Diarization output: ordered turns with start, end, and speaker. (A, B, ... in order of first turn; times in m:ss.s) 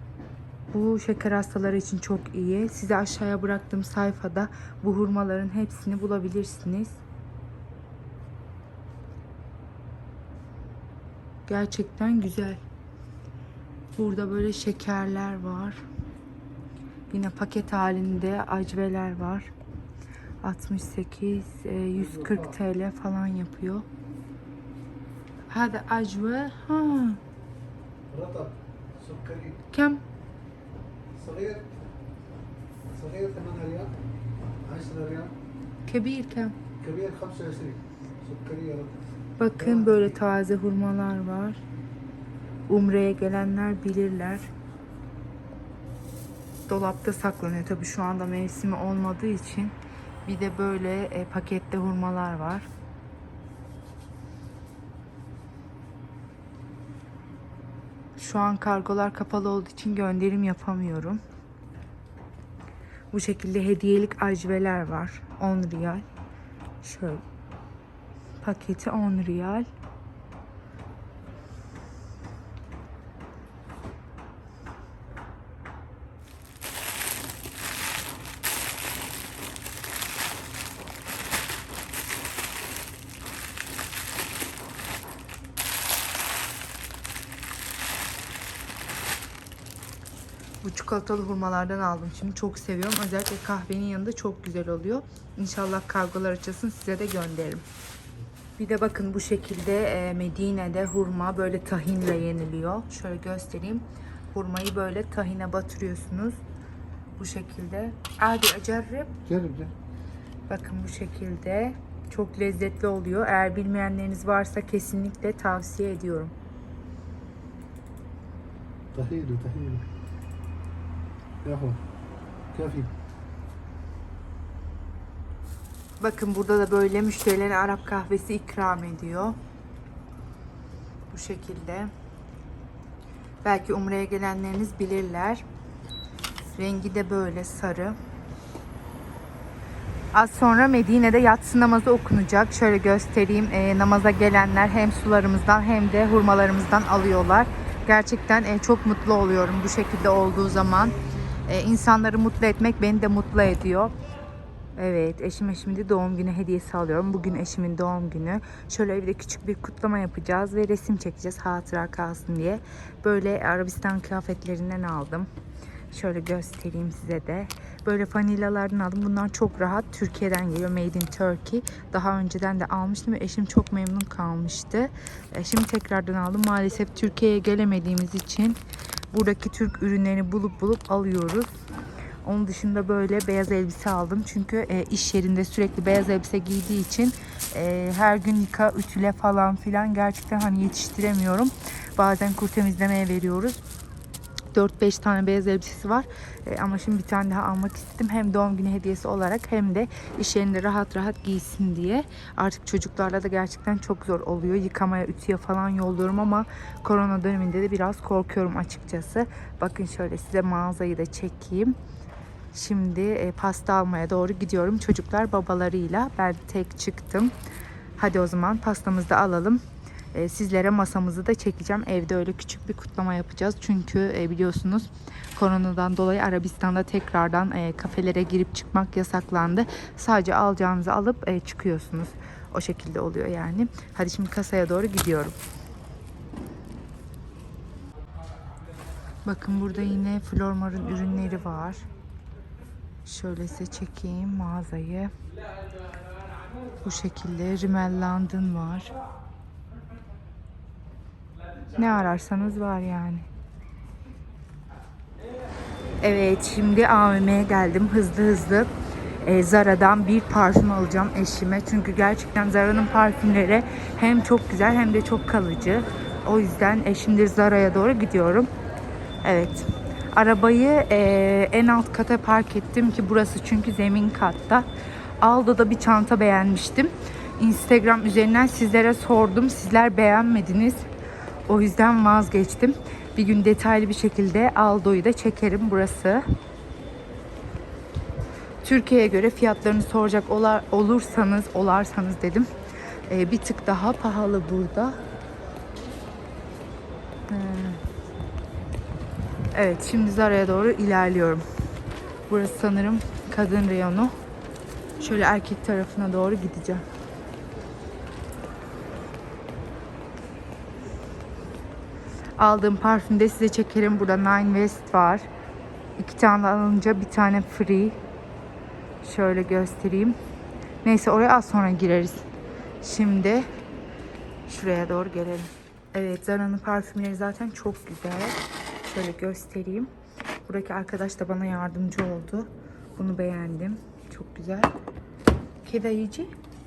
0:00.7-0:07.0 A
0:11.5-0:12.6 A
0:14.0-0:15.8 A
0:17.1-0:19.5 A
0:20.4-0:23.9 A
0:21.9-0:22.6 B
0:25.5-0:27.2 A
0:28.1-0:29.6 B
0:29.7-0:30.0 A
0:31.1-0:31.7 B
0:32.9-0:33.9 B
0:34.6-0:35.3 B
0:35.9-0:36.6 A
0:36.8-0:40.2 B
0:39.4-0:41.6 A
0:42.7-0:44.5 A
0:46.7-0:52.7 A
0:58.2-1:01.2 A
1:03.1-1:06.0 A
1:06.8-1:07.2 A
1:08.4-1:09.7 A
1:30.6-1:37.6 A
1:38.6-1:46.4 A
1:47.2-1:49.2 A
1:49.3-1:49.7 B
1:50.5-1:56.3 A
1:58.9-1:59.9 B
2:01.4-2:01.8 B
2:02.5-2:02.9 B
2:06.0-2:09.4 A
2:11.1-2:11.9 A
2:13.4-2:15.4 A
2:16.6-2:18.0 A
2:20.1-2:31.0 A
2:31.5-2:34.0 A
2:34.8-2:45.3 A
2:45.9-2:58.6 A
2:59.1-3:01.5 A
3:02.2-3:13.6 A
3:14.5-3:31.8 A
3:32.5-3:37.3 A
3:38.0-3:39.6 A
3:40.1-3:55.4 A
3:59.2-4:01.8 A
4:03.0-4:05.1 A
4:06.8-4:08.9 A
4:11.7-4:13.3 A
4:16.0-4:18.7 A
4:19.2-4:28.5 A
4:29.2-4:34.7 A
4:35.2-4:40.9 A
4:41.5-4:46.2 A
4:48.6-4:52.5 A
4:53.1-4:55.0 A
4:57.3-4:57.8 A
4:59.5-5:01.4 A
5:02.3-5:04.2 A
5:05.0-5:06.8 A
5:12.4-5:15.3 A
5:16.0-5:18.0 A
5:19.0-5:20.2 A
5:20.8-5:22.2 A
5:22.8-5:23.5 A
5:24.5-5:29.9 A
5:30.5-5:34.7 A
5:35.6-5:36.3 A